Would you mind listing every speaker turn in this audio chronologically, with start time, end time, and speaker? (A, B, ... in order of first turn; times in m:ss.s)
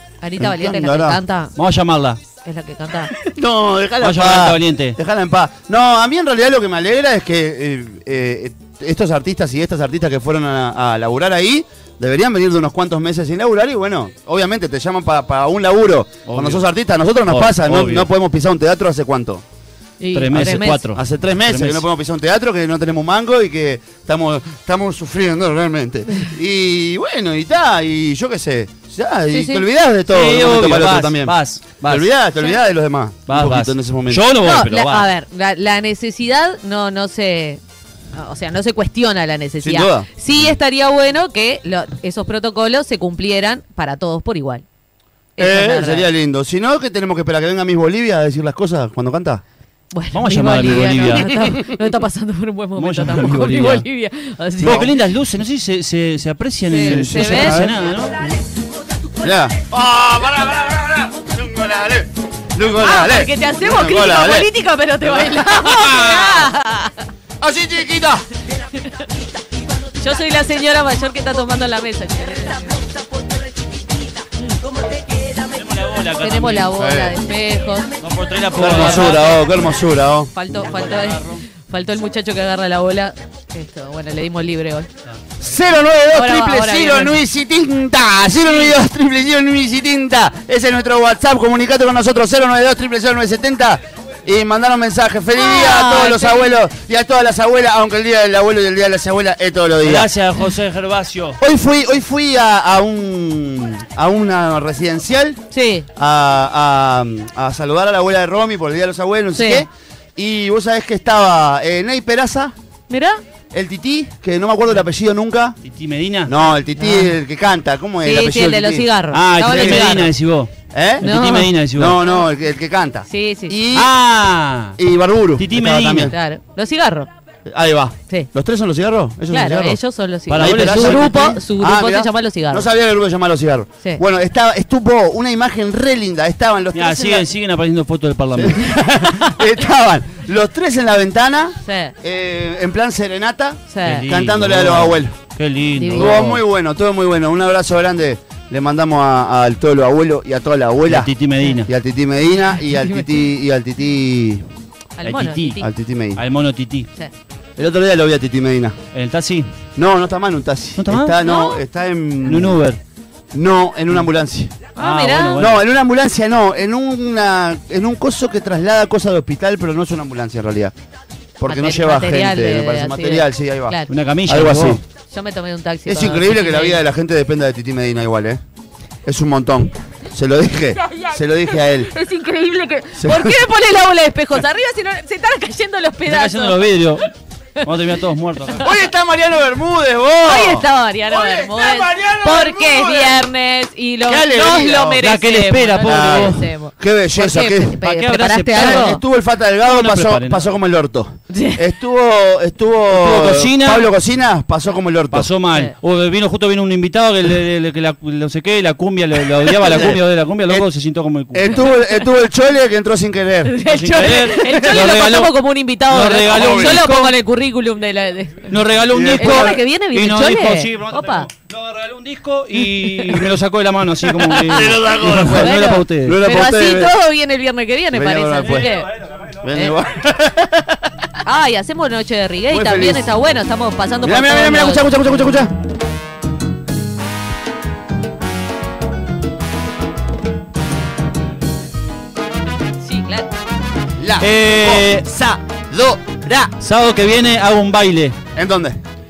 0:00.2-0:01.5 A
0:00.4-0:01.2 B
0:01.6-0:02.2 C
0:02.4-0:03.1 A
0:03.2-0:19.4 B
0:04.0-0:05.0 C
0:16.3-0:16.6 C
0:17.3-0:18.1 C
0:20.0-0:20.8 A
0:20.2-0:21.8 C
0:20.3-0:34.2 B
0:29.3-0:29.6 A
0:30.1-0:32.1 C
0:33.3-0:35.1 C
0:34.4-0:37.6 A
0:38.1-0:44.6 A
0:39.6-0:40.1 B
0:45.4-0:46.1 A
0:45.4-0:49.4 B
0:49.9-0:54.9 A
0:50.1-0:51.6 C
0:52.8-0:53.8 C
0:54.6-0:58.2 C
0:54.6-0:54.9 B
0:56.7-0:57.7 A
0:56.8-0:57.7 B
0:59.2-1:04.5 B
1:02.8-1:07.1 A
1:05.2-1:06.2 B
1:06.0-1:06.4 C
1:07.4-1:08.2 B
1:10.0-1:12.9 A
1:15.4-1:16.7 C
1:16.2-1:18.0 A
1:16.8-1:17.2 B
1:18.0-1:19.5 C
1:18.6-1:20.3 B
1:20.3-1:24.9 A
1:20.9-1:21.4 C
1:25.4-1:40.1 B
1:26.1-1:27.2 A
1:35.4-1:36.5 A
1:39.8-1:41.4 C
1:41.4-1:45.4 B
1:45.5-1:45.9 A
1:46.0-1:52.5 B
1:49.3-1:49.7 A
1:52.9-1:53.2 A
1:53.5-1:55.6 B
1:55.6-1:56.3 C
1:56.3-1:58.9 B
1:56.8-1:57.2 A
1:58.0-2:00.1 A
1:59.1-2:02.0 C
1:59.4-2:00.0 B
2:00.7-2:01.1 B
2:01.0-2:01.5 A
2:01.7-2:03.9 B
2:03.1-2:03.6 A
2:03.7-2:04.8 C
2:04.8-2:06.2 B
2:05.4-2:06.1 C
2:06.0-2:07.1 A
2:07.5-2:09.8 B
2:09.3-2:12.7 A
2:10.3-2:11.3 C
2:10.4-2:17.3 B
2:16.7-2:18.7 C
2:18.4-2:25.2 B
2:19.1-2:19.4 A
2:21.6-2:22.0 A
2:23.7-2:24.1 A
2:23.8-2:26.4 C
2:25.8-2:26.2 A
2:25.9-2:31.1 B
2:30.9-2:31.7 C
2:31.7-2:34.4 B
2:32.3-2:33.3 A
2:35.0-2:35.7 A
2:35.0-2:35.6 C
2:35.6-2:36.2 B
2:36.2-2:36.9 C
2:37.6-2:38.8 B
2:38.9-2:39.5 C
2:39.8-2:42.6 B
2:40.8-2:41.2 C
2:41.2-2:41.6 A
2:42.2-2:42.8 C
2:43.3-2:44.6 B
2:44.8-2:45.4 A
2:44.8-2:45.7 C
2:45.4-2:50.7 B
2:51.4-2:54.8 B
2:51.5-2:53.9 A
2:53.9-2:54.8 C
2:55.1-2:56.8 A
2:55.9-2:58.4 B
2:59.0-3:01.9 B
3:01.8-3:06.8 A
3:03.0-3:03.4 B
3:06.0-3:07.1 C
3:07.6-3:08.8 C
3:08.6-3:13.3 B
3:10.2-3:19.0 A
3:14.0-3:15.0 B
3:15.0-3:16.5 C
3:15.8-3:17.8 B
3:17.8-3:19.0 C
3:18.5-3:25.3 B
3:19.6-3:20.5 C
3:21.3-3:21.6 A
3:22.9-3:23.9 C
3:25.1-3:31.8 C
3:29.5-3:30.7 B
3:31.3-3:34.9 B
3:33.5-3:41.3 A
3:33.7-3:35.3 C
3:35.9-3:37.2 C
3:36.2-3:36.9 B
3:38.5-3:46.2 C
3:38.9-3:39.6 B
3:43.0-3:43.2 B
3:44.2-3:47.0 B
3:44.3-3:44.8 A
3:45.3-3:48.9 A
3:47.9-3:48.8 B
3:48.5-3:48.7 C
3:49.4-3:51.0 B
3:51.2-3:54.9 A
3:52.5-3:53.1 B
3:54.0-3:55.5 B
4:02.8-4:03.3 A
4:04.0-4:06.5 B
4:04.2-4:05.1 C
4:06.6-4:08.2 C
4:08.4-4:08.8 B